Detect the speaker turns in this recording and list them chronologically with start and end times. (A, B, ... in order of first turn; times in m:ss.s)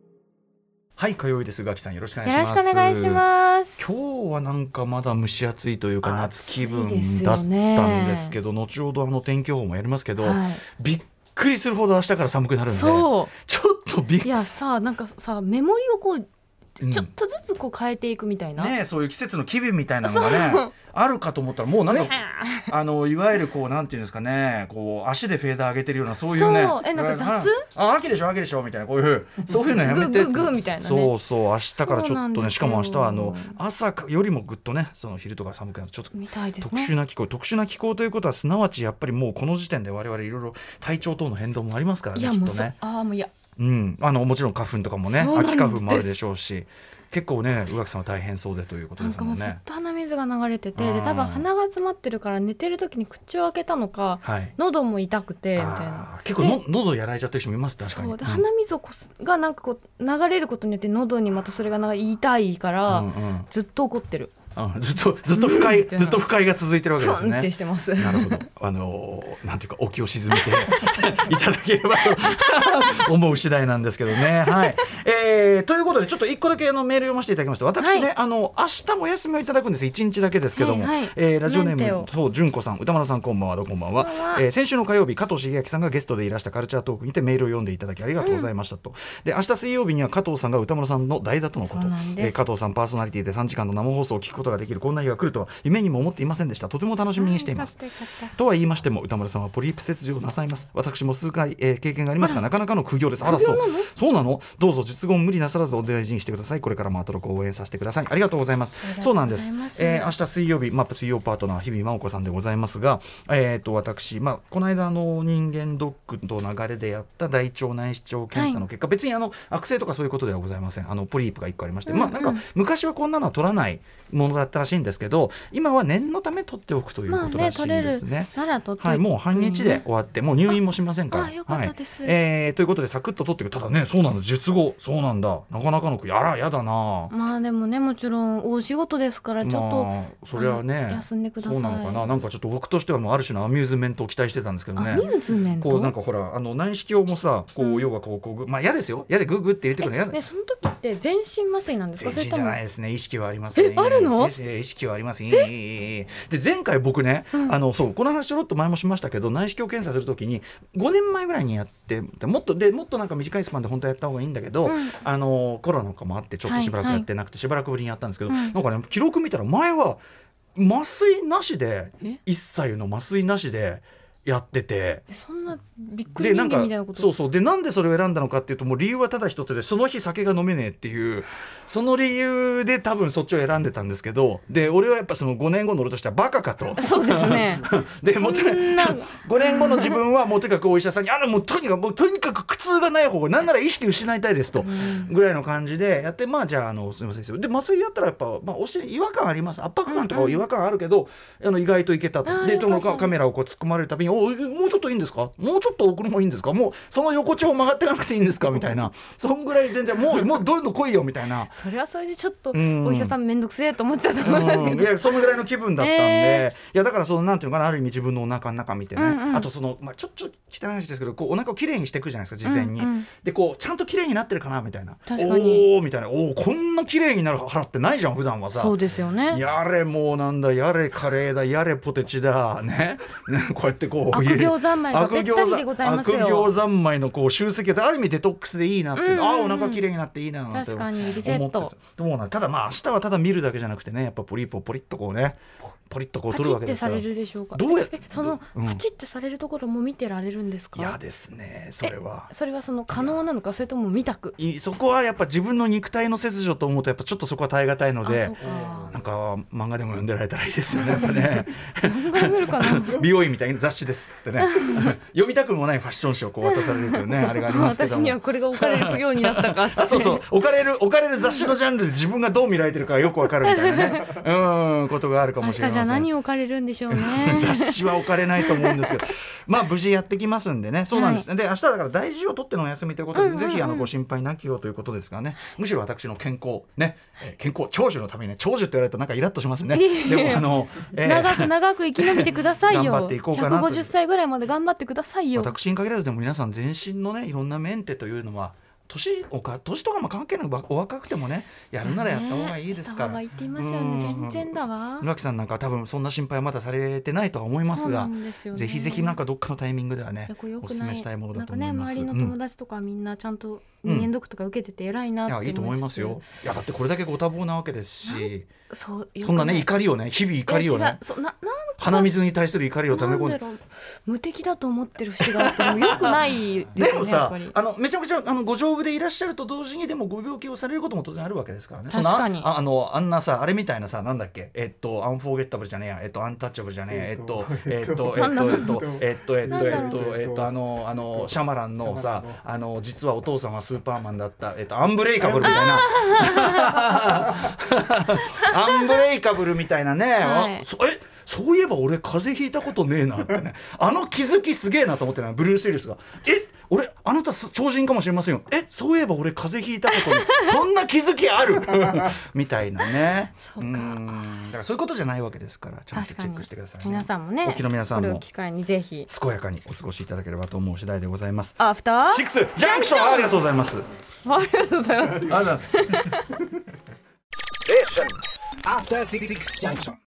0:01.0-0:03.2 A
0:02.2-0:03.8 B
0:03.8-0:14.3 A
0:06.0-0:08.4 B
0:10.2-0:10.6 B
0:12.7-0:13.3 B
0:14.2-0:16.3 B
0:16.8-0:17.1 A
0:16.8-0:18.7 B
0:18.6-0:42.8 A
0:20.0-0:20.7 B
0:21.9-0:22.7 B
0:26.3-0:27.6 B
0:29.5-0:31.1 B
0:31.8-0:33.6 B
0:36.1-0:36.9 B
0:42.1-0:43.3 B
0:43.6-0:49.6 A
0:45.1-0:46.2 B
0:49.0-0:56.6 B
0:50.8-0:51.4 A
0:54.2-0:54.5 A
0:55.6-0:58.4 A
0:57.8-1:04.3 B
1:02.9-1:03.5 A
1:04.6-1:37.8 A
1:05.3-1:06.3 B
1:07.0-1:08.4 B
1:10.3-1:11.2 B
1:12.0-1:13.1 B
1:14.2-1:14.7 B
1:17.8-1:18.1 B
1:20.6-1:22.1 B
1:24.0-1:24.4 B
1:28.2-1:28.5 B
1:31.6-1:32.3 B
1:37.2-1:38.3 B
1:38.3-2:17.1 A
1:43.2-1:43.9 B
1:48.8-1:50.1 B
1:58.3-1:58.6 B
2:01.9-2:02.4 B
2:07.1-2:09.8 B
2:11.1-2:12.2 B
2:17.1-2:22.1 B
2:19.4-2:30.2 A
2:24.8-2:25.9 B
2:27.6-2:27.9 B
2:29.8-2:32.6 B
2:32.0-2:50.0 A
2:33.5-2:34.3 B
2:44.6-2:44.9 B
2:46.4-2:47.1 B
2:48.3-2:48.6 B
2:50.6-2:55.0 A
2:55.1-2:57.1 B
2:56.2-3:31.5 A
3:06.8-3:07.7 B
3:08.2-3:10.0 B
3:14.6-3:15.1 B
3:19.9-3:20.4 B
3:22.2-3:23.1 B
3:31.5-3:36.5 B
3:32.5-3:33.2 A
3:34.2-4:08.8 A
3:39.0-3:39.5 B
3:42.4-3:43.1 B
3:45.1-3:45.7 B
3:48.5-3:49.4 B
3:54.1-3:56.5 B
3:59.0-3:59.8 B
4:00.5-4:01.7 B
4:06.3-4:11.0 B
4:10.7-4:12.3 A
4:11.8-4:14.3 B
4:14.4-4:36.1 A
4:18.0-4:19.0 B
4:20.7-4:23.1 B
4:24.4-4:25.0 B
4:26.4-4:30.2 B
4:33.4-4:34.2 B
4:35.4-4:39.0 B
4:36.9-4:53.9 A
4:40.9-4:41.3 B
4:43.1-4:43.9 B
4:49.7-4:55.5 B
4:55.3-5:12.4 A
5:01.8-5:05.1 B
5:07.7-5:09.2 B
5:10.3-5:16.2 B
5:13.8-5:14.1 A
5:15.2-5:18.5 A
5:18.0-5:19.7 B
5:19.2-5:21.0 A
5:20.5-5:22.1 B
5:21.8-5:23.4 A
5:22.9-5:27.5 B
5:25.2-6:08.2 A
5:31.9-5:32.5 B
5:38.0-5:40.1 B
5:45.4-5:47.4 B
5:48.2-5:49.0 B
5:50.2-5:50.6 B
5:59.9-6:00.6 B
6:03.5-6:04.2 B
6:05.9-6:09.1 B
6:09.1-6:13.8 A
6:11.6-6:13.4 B
6:14.2-6:16.3 B
6:15.2-6:16.0 A
6:17.7-6:20.0 C